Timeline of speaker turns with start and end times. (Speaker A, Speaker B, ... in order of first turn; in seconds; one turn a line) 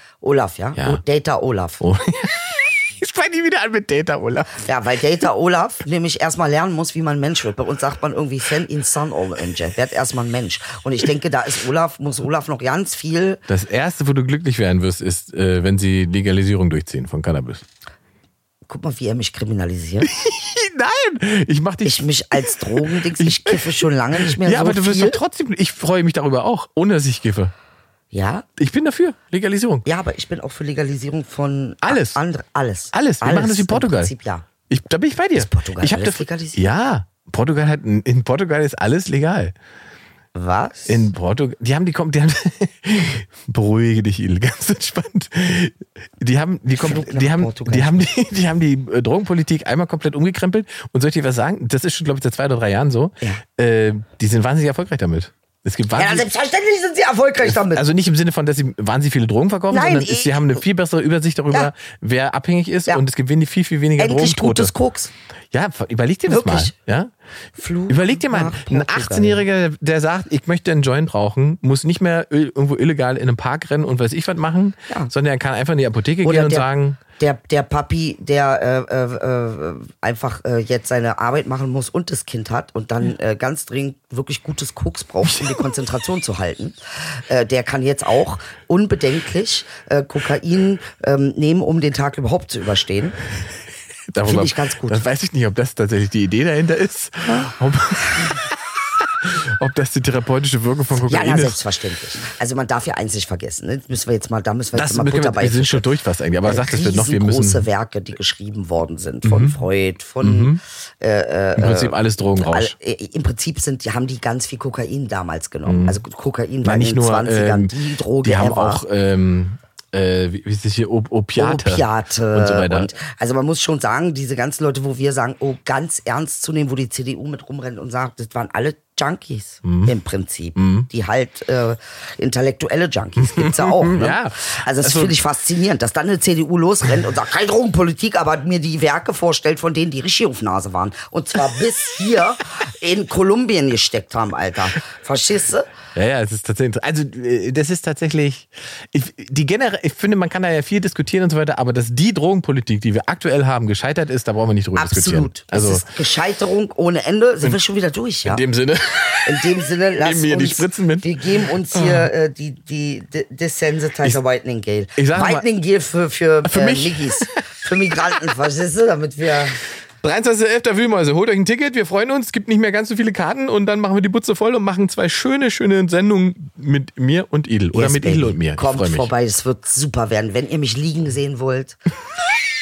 Speaker A: 0.2-1.9
Speaker B: 0.8-1.0
Speaker B: 1.8-4.6
Speaker A: 4.6-13.4
Speaker B: 13.5-17.6
Speaker A: 18.7-20.1
Speaker B: 20.0-27.5
Speaker A: 21.8-25.2
Speaker A: 28.1-28.5
Speaker B: 28.6-29.9
Speaker A: 29.9-34.5
Speaker B: 31.8-32.2
Speaker B: 32.9-34.1
Speaker B: 34.7-39.5
Speaker A: 35.4-36.6
Speaker A: 40.4-41.1
Speaker B: 40.9-56.3
Speaker A: 46.8-48.0
Speaker A: 56.0-57.9
Speaker B: 57.5-64.7
Speaker A: 59.7-60.6
Speaker A: 64.0-65.1
Speaker B: 65.5-67.1
Speaker A: 66.3-66.7
Speaker A: 67.6-69.4
Speaker B: 67.9-77.0
Speaker A: 76.2-93.2
Speaker B: 94.1-101.6
Speaker A: 94.2-95.0
Speaker A: 101.0-105.9
Speaker B: 104.7-107.7
Speaker A: 106.4-118.8
Speaker B: 109.2-109.6
Speaker B: 110.2-110.6
Speaker B: 111.6-112.7
Speaker B: 115.7-116.0
Speaker B: 116.6-122.9
Speaker A: 121.4-145.7
Speaker B: 129.7-129.9
Speaker B: 130.6-130.9
Speaker B: 133.2-135.2
Speaker B: 145.9-155.8
Speaker A: 154.8-158.4
Speaker B: 158.2-161.1
Speaker A: 159.3-169.6
Speaker B: 161.7-162.1
Speaker B: 165.0-165.5
Speaker B: 166.5-167.4
Speaker B: 170.0-179.1
Speaker A: 177.7-181.8